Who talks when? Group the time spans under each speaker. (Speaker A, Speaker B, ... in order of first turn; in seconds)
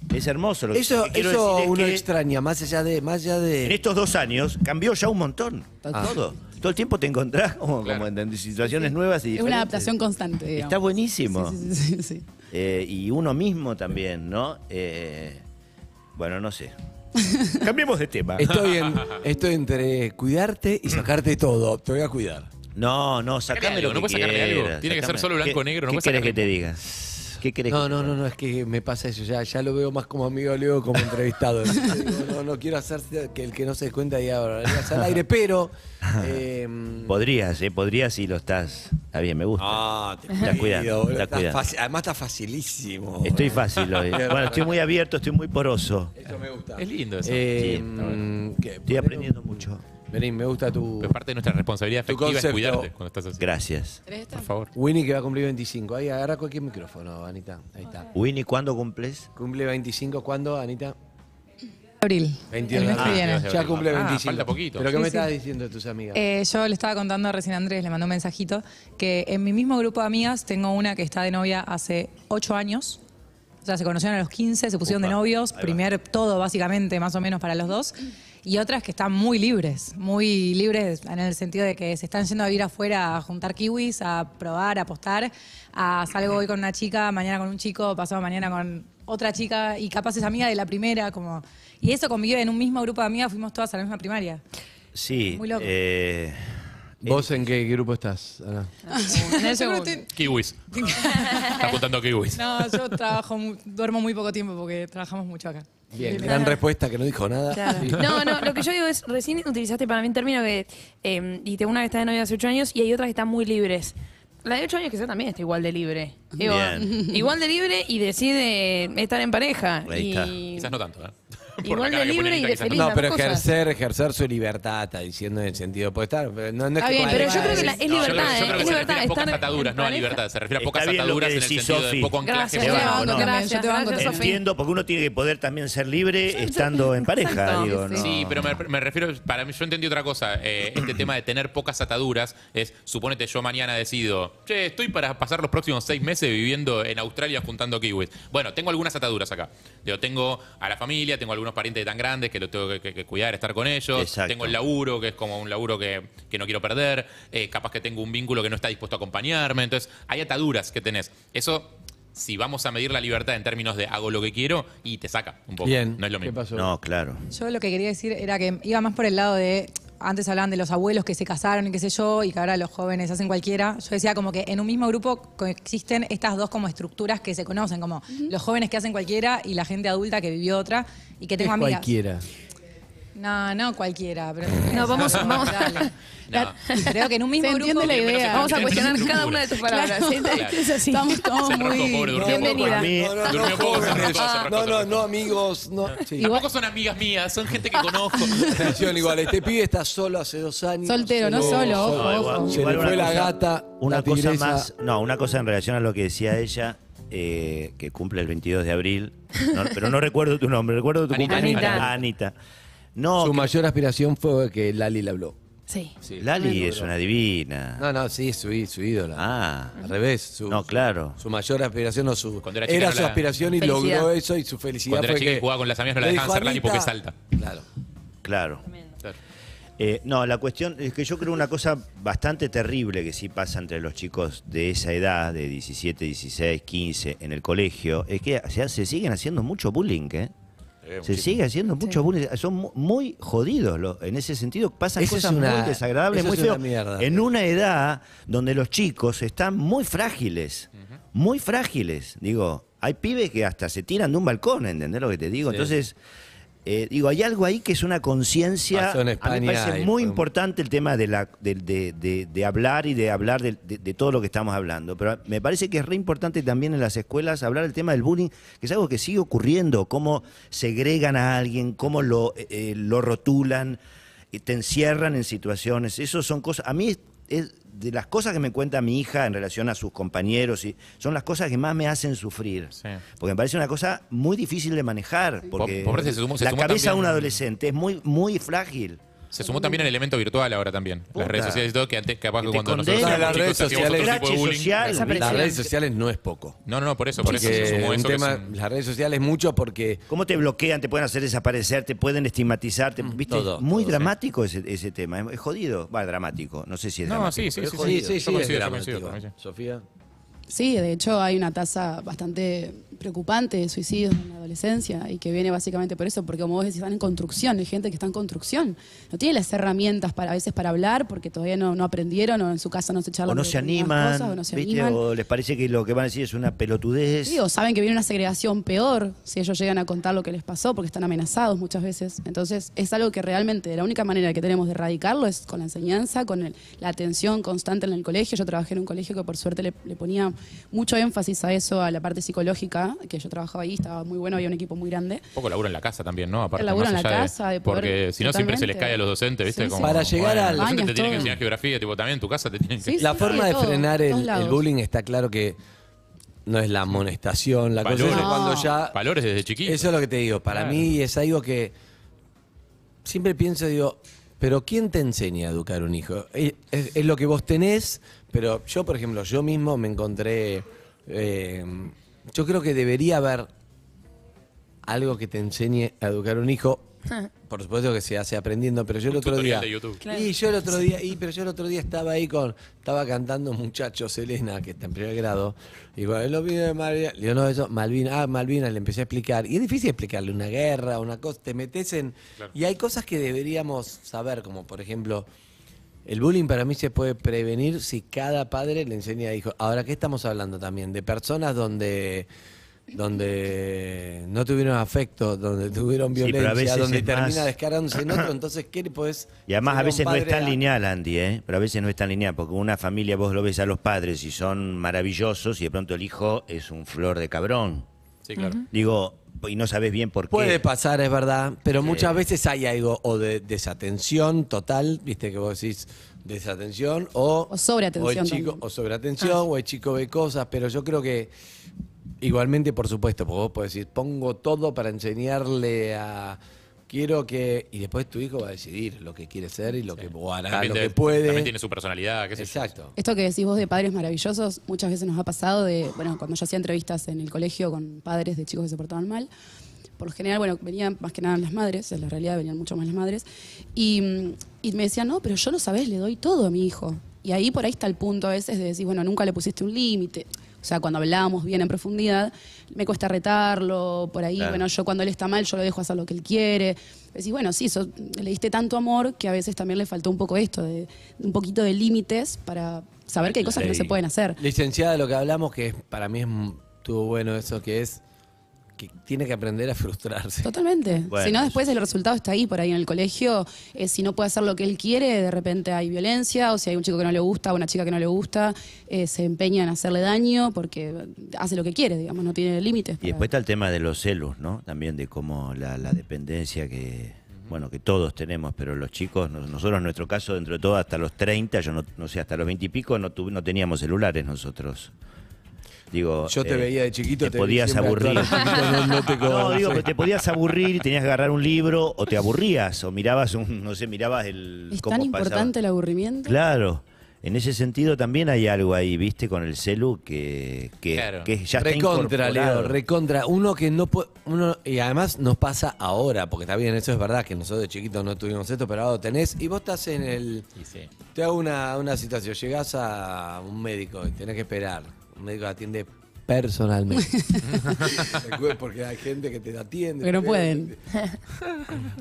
Speaker A: 0.1-2.1, 3.6-9.9, 10.6-11.6, 12.5-15.4, 16.1-16.7, 17.5-18.6, 22.8-28.2, 37.1-41.7, 43.2-46.1, 47.5-48.0, 48.9-49.8, 53.4-54.0, 58.1-59.3, 74.8-75.8, 94.9-97.5, 116.4-117.0, 119.9-120.4, 130.6-133.3, 134.0-138.6, 153.9-154.6, 166.6-167.2, 192.6-193.5, 201.4-212.3, 212.9-213.5, 216.2-217.9, 219.2-219.8, 220.5-221.2, 228.2-228.6, 229.8-240.3, 241.0-256.0, 256.6-273.8, 274.3-289.0, 291.1-291.7, 292.4-295.6, 300.1-308.2, 323.3-327.4, 406.2-408.3, 409.5-417.9, 418.7-420.6, 421.8-422.2, 464.4-464.7, 481.1-481.6, 493.0-504.9, 505.9-515.5, 516.2-522.8
Speaker B: 0.7-3.8, 18.4-22.5, 27.0-37.1, 39.6-44.7, 46.2-51.2, 52.1-52.9, 54.8-58.1, 59.4-61.0, 62.5-66.2, 97.0-98.7, 105.9-108.2, 122.7-128.8, 165.6-166.7, 181.4-182.2, 192.1-196.3, 198.4-204.7, 211.3-211.9, 213.2-215.4, 216.0-216.9, 217.8-219.2, 219.8-227.7, 245.0-247.3, 255.5-255.7, 258.7-260.2, 292.9-294.3, 295.0-296.6, 297.2-300.1, 303.0-304.1, 307.7-309.8, 349.8-350.8, 353.0-355.6, 356.5-359.0, 359.6-361.7, 363.1-373.5, 374.9-376.9, 377.5-395.3, 396.1-402.3, 402.9-410.6, 420.3-431.3, 432.2-441.5, 442.4-442.9, 473.5-478.0, 478.8-480.5, 506.3-509.9, 521.6-530.5, 531.1-537.2, 537.9-540.8
Speaker C: 5.9-6.2, 9.4-12.3, 54.1-54.5, 116.5-117.1, 126.8-128.0, 132.6-134.4, 137.6-138.1, 187.4-192.7, 196.2-196.4, 198.2-198.8, 200.9-202.6, 289.4-289.9, 310.5-325.0, 327.3-345.2, 346.6-351.4, 352.8-354.6, 358.1-358.7, 427.5-428.6, 443.0-449.3, 450.0-474.4, 480.4-493.3, 514.7-516.4, 537.0-538.0, 540.0-540.7
Speaker D: 23.5-26.6, 46.8-48.2, 51.0-53.5, 54.3-54.7, 62.8-64.9, 100.1-102.8, 120.5-123.0, 127.7-133.0, 138.0-166.4, 185.0-185.8, 186.3-186.6, 187.8-189.5, 190.3-190.6, 191.3-192.8, 193.3-195.3, 196.2-199.0, 211.1-211.9, 222.4-223.4, 224.9-227.2, 240.9-241.3, 285.6-287.4, 289.3-295.1, 296.7-298.5, 307.1-309.3, 345.4-353.4, 357.8-359.9, 360.5-360.9, 379.1-380.0, 418.3-418.6, 440.1-442.7, 521.0-521.3, 530.6-530.9, 537.5-537.9
Speaker E: 62.0-63.5, 64.9-65.3, 66.1-73.0, 73.6-94.4, 95.3-95.7, 99.1-100.1, 100.7-101.7, 102.4-106.6, 132.7-134.1, 167.3-181.9, 183.2-188.8
Speaker F: 98.9-100.0, 101.0-101.6, 107.5-120.8, 121.6-123.5, 127.0-130.2, 132.2-134.3, 136.4-138.0, 184.7-185.9, 186.7-186.9, 188.3-191.2, 192.2-194.0, 211.3-211.8, 215.7-215.9, 223.6-224.1, 294.8-295.7, 380.0-380.3, 418.4-418.6